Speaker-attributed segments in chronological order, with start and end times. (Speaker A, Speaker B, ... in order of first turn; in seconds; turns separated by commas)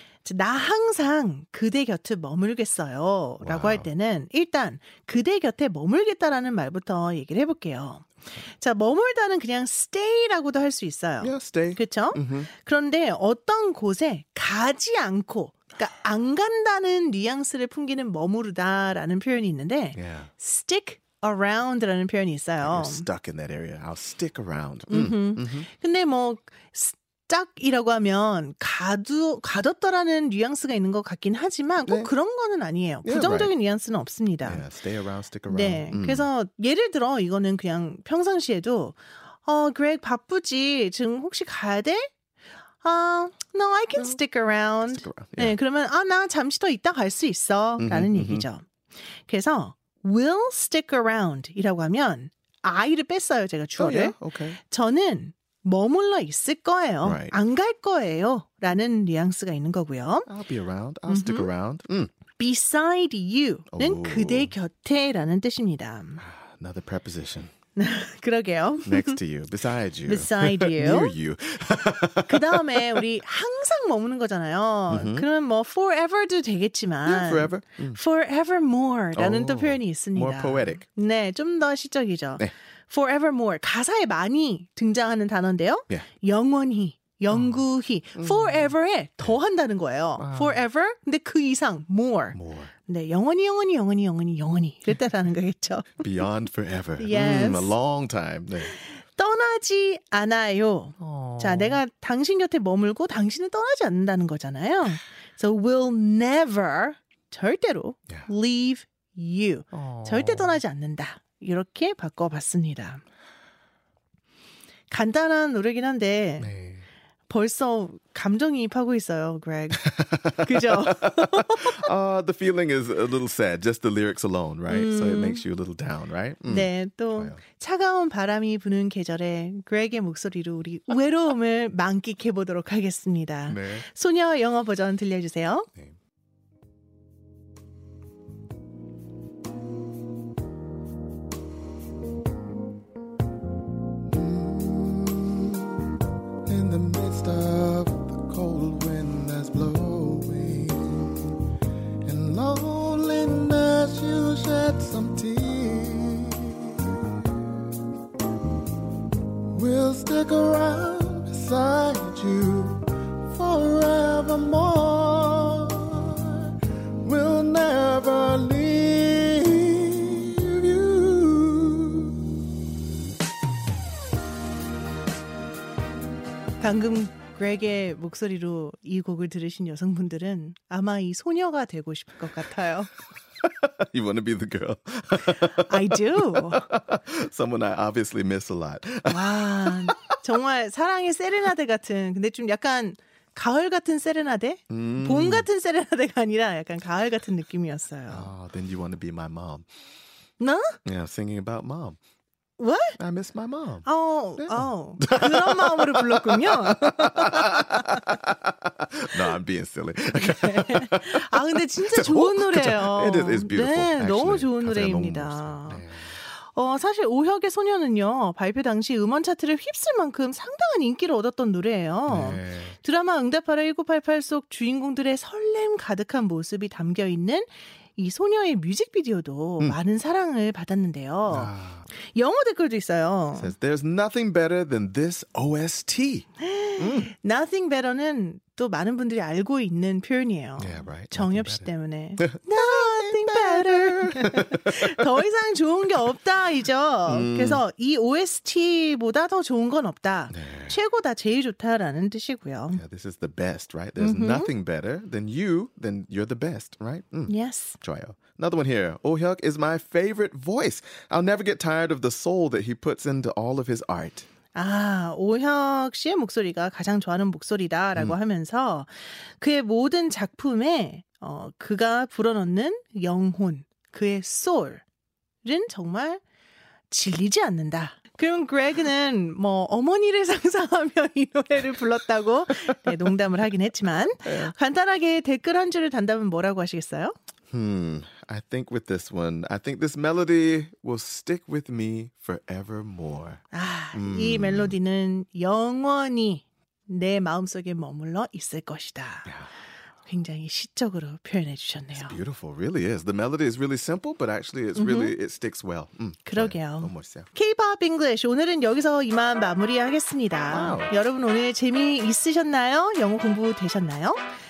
Speaker A: 0.2-23.1, Speaker B: 3.4-3.9, Speaker B: 11.2-12.5, Speaker B: 19.9-20.3, Speaker B: 22.6-25.7, Speaker A: 24.9-34.6, Speaker B: 31.8-32.1, Speaker B: 33.0-33.5, Speaker B: 34.4-36.3, Speaker A: 35.5-42.1, Speaker A: 42.8-48.6, Speaker B: 44.9-45.5, Speaker B: 47.8-48.5, Speaker A: 49.3-60.3, Speaker B: 53.8-54.6, Speaker B: 57.0-57.3, Speaker B: 60.3-62.1, Speaker A: 61.1-61.5, Speaker A: 62.4-66.2, Speaker B: 63.7-64.5, Speaker B: 66.2-67.5, Speaker A: 67.8-69.2, Speaker B: 68.8-73.0, Speaker A: 70.0-71.1, Speaker A: 72.2-96.0, Speaker B: 74.9-75.3, Speaker B: 77.0-78.0, Speaker B: 79.1-80.8, Speaker B: 87.3-87.6, Speaker B: 88.2-88.7, Speaker B: 90.2-90.6, Speaker B: 92.3-92.7, Speaker B: 96.0-98.7, Speaker A: 97.0-97.7, Speaker A: 98.6-113.0, Speaker B: 101.0-101.8, Speaker B: 109.7-110.6, Speaker A: 114.9-116.5, Speaker B: 116.4-116.8, Speaker A: 117.3-121.8, Speaker B: 119.8-127.4, Speaker A: 124.7-125.4, Speaker A: 126.5-135.7, Speaker B: 133.5-133.8, Speaker B: 144.1-151.3, Speaker B: 152.0-156.9, Speaker B: 159.5-166.5, Speaker B: 167.0-172.1, Speaker A: 176.6-182.9, Speaker B: 183.4-190.0, Speaker A: 185.4-186.6, Speaker A: 189.1-198.3, Speaker B: 194.7-195.5, Speaker B: 198.1-199.7, Speaker A: 200.4-200.8, Speaker B: 200.8-202.0, Speaker A: 202.6-203.0, Speaker B: 203.0-216.1, Speaker A: 203.8-208.1, Speaker A: 210.2-233.5, Speaker B: 222.1-222.7, Speaker B: 231.3-231.9, Speaker B: 233.3-236.3, Speaker A: 236.4-252.8, Speaker B: 236.8-237.1, Speaker B: 240.6-244.9, Speaker B: 247.1-247.6, Speaker B: 250.3-250.8, Speaker B: 252.7-264.3, Speaker A: 254.0-254.5, Speaker A: 257.3-257.8, Speaker A: 264.5-274.8, Speaker A: 275.4-276.2, Speaker A: 276.9-287.1, Speaker B: 284.2-284.5, Speaker B: 287.5-293.4, Speaker A: 293.5-299.3, Speaker B: 293.9-294.8, Speaker A: 300.0-302.1, Speaker B: 301.9-307.3, Speaker A: 304.8-305.1, Speaker A: 306.3-314.2, Speaker B: 310.5-310.9